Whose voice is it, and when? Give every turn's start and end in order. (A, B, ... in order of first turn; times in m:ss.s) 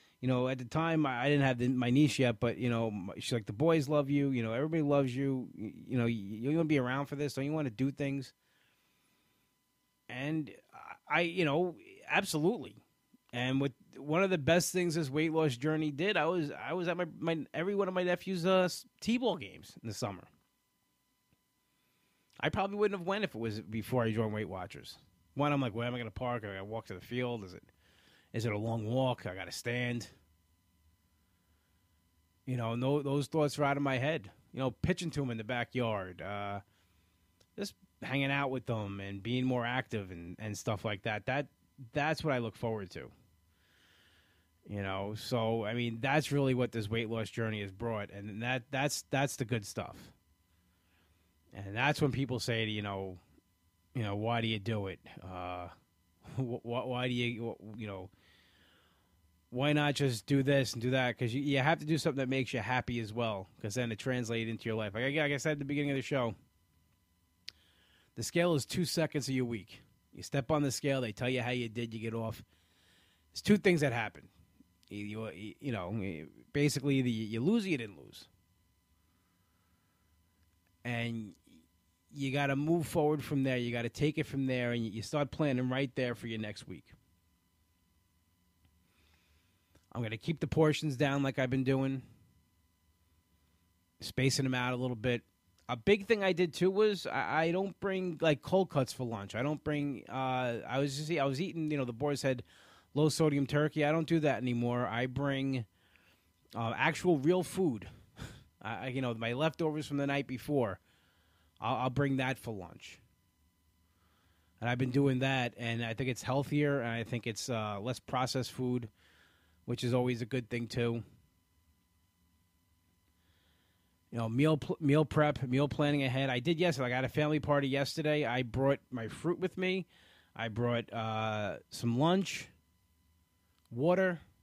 0:00.2-0:08.3 A
0:10.1-0:12.8 A
0:13.3-0:20.3 A
0:22.4-0:27.7 A
0:28.3-0:30.1 A
0:32.4-0:36.6 A
0:37.6-0:43.1 A
0:44.7-0:50.1 A
0:51.5-0:53.2 A
0:53.9-0:55.7 A
0:56.3-0:58.1 A
0:59.5-1:06.3 A
1:08.2-1:12.4 A
1:13.3-1:14.3 A
1:14.9-1:18.3 A
1:20.8-1:21.4 A
1:22.1-1:26.9 A
1:29.9-1:32.0 A
1:34.0-1:45.7 A
1:46.5-1:47.9 A
1:48.6-1:50.8 A
1:51.6-1:53.0 A
1:54.6-1:58.9 A
1:59.6-2:01.0 A
2:04.1-2:12.5 A
2:13.7-2:14.2 A